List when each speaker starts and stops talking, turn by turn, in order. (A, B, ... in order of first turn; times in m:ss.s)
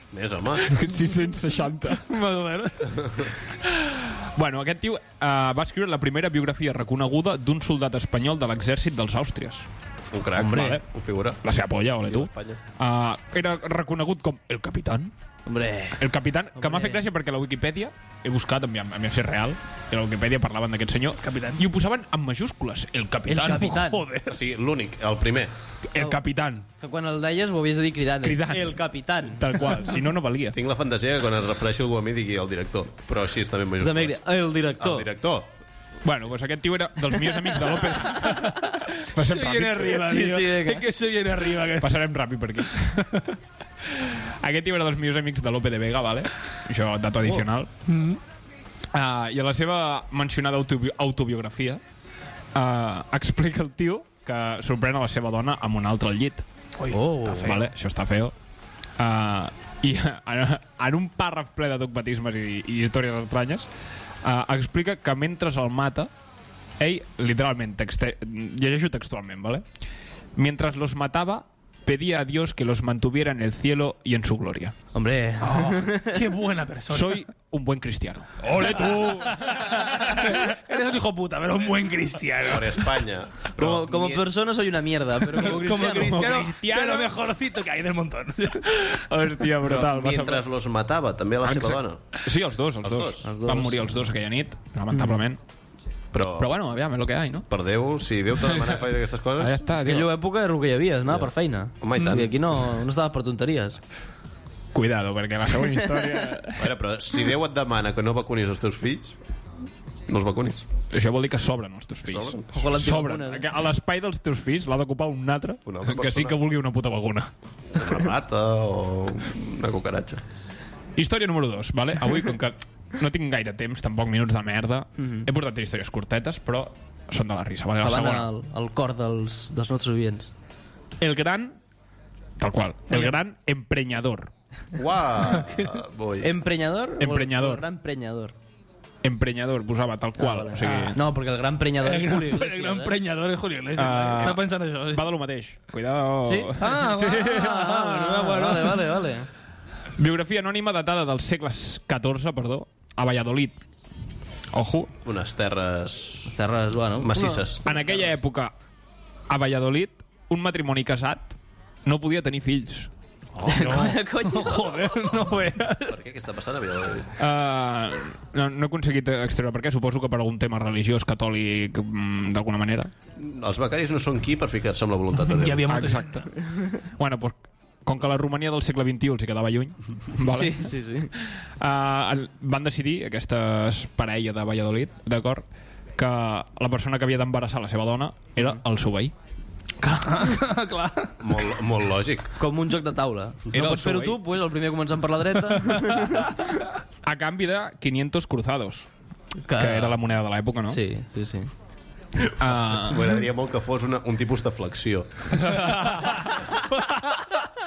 0:00.1-0:00.7 A
0:00.6-0:02.0 B
0:02.0-0:03.3 C
0:03.6-0:09.7 B
0:10.1-0:11.4 A
0:10.4-0:10.8 D
0:10.4-0:10.8 B
0:11.4-0:15.1 B
0:12.0-0:12.6 A
0:15.4-0:16.0 D
0:16.0-0:23.8 B
0:16.6-0:17.0 D
0:21.2-0:21.6 C
0:23.3-0:24.0 D
0:23.5-0:24.4 C
0:24.3-0:25.5 A
0:25.9-0:26.6 B
0:26.8-0:29.5 D
0:28.2-0:28.8 B
0:29.4-0:30.6 B
0:30.5-0:35.5 A
0:33.8-0:35.1 D
0:36.0-0:40.0 B
0:39.2-0:41.9 C
0:40.0-0:40.8 D
0:41.8-0:43.1 B
0:43.9-0:47.7 B
0:47.9-0:48.2 C
0:48.9-0:51.8 B
0:52.5-0:56.4 B
0:56.8-0:57.6 C
0:56.9-0:57.5 D
0:57.3-0:58.3 B
0:59.0-1:03.7 B
1:04.2-1:06.1 B
1:06.8-1:09.6 B
1:10.4-1:14.7 B
1:14.9-1:16.2 D
1:15.4-1:17.2 C
1:16.9-1:20.4 B
1:18.7-1:23.0 C
1:22.4-1:24.3 A
1:23.6-1:26.1 D
1:25.4-1:28.8 C
1:25.5-1:27.1 B
1:28.7-1:30.4 B
1:29.8-1:32.0 A
1:31.5-1:35.4 B
1:32.8-1:33.2 A
1:33.2-1:33.8 D
1:34.9-1:35.2 D
1:36.1-1:36.5 A
1:36.4-1:37.4 B
1:37.5-1:39.6 A
1:38.4-1:38.8 B
1:39.4-1:40.1 B
1:39.8-1:43.8 D
1:41.1-1:42.4 A
1:42.0-1:42.3 C
1:44.7-1:46.7 B
1:46.6-1:49.2 A
1:50.1-1:50.6 A
1:50.9-1:57.3 B
1:52.1-1:52.4 A
1:52.5-1:53.4 D
1:55.6-1:56.4 A
1:57.7-2:00.2 A
2:01.0-2:08.3 B
2:05.0-2:05.3 D
2:07.8-2:10.3 D
2:11.0-2:11.6 B
2:12.4-2:14.3 B
2:14.7-2:16.3 A
2:16.2-2:18.3 D
2:17.0-2:17.6 B
2:19.0-2:21.0 B
2:20.2-2:23.0 D
2:21.8-2:25.1 C
2:23.7-2:27.8 B
2:26.2-2:26.6 D
2:26.6-2:28.8 C
2:27.2-2:29.3 D
2:30.0-2:33.6 B
2:34.5-2:34.9 B
2:35.0-2:36.3 A
2:36.3-2:37.8 D
2:37.0-2:37.7 A
2:37.6-2:38.5 B
2:39.3-2:41.3 B
2:41.8-2:42.9 B
2:43.4-2:46.0 C
2:43.5-2:45.0 D
2:45.8-2:47.1 A
2:47.2-2:52.9 B
2:53.2-2:55.6 A
2:55.2-2:56.2 C
2:55.7-3:05.4 B
3:00.2-3:01.1 D
3:06.0-3:09.1 B
3:09.9-3:11.1 C
3:11.2-3:12.3 A
3:12.4-3:16.3 D
3:13.5-3:14.2 B
3:17.0-3:18.9 B
3:19.4-3:20.0 D
3:19.6-3:20.8 B
3:20.7-3:21.5 D
3:22.4-3:23.0 B
3:22.7-3:25.3 A
3:25.3-3:26.3 B
3:26.7-3:27.2 C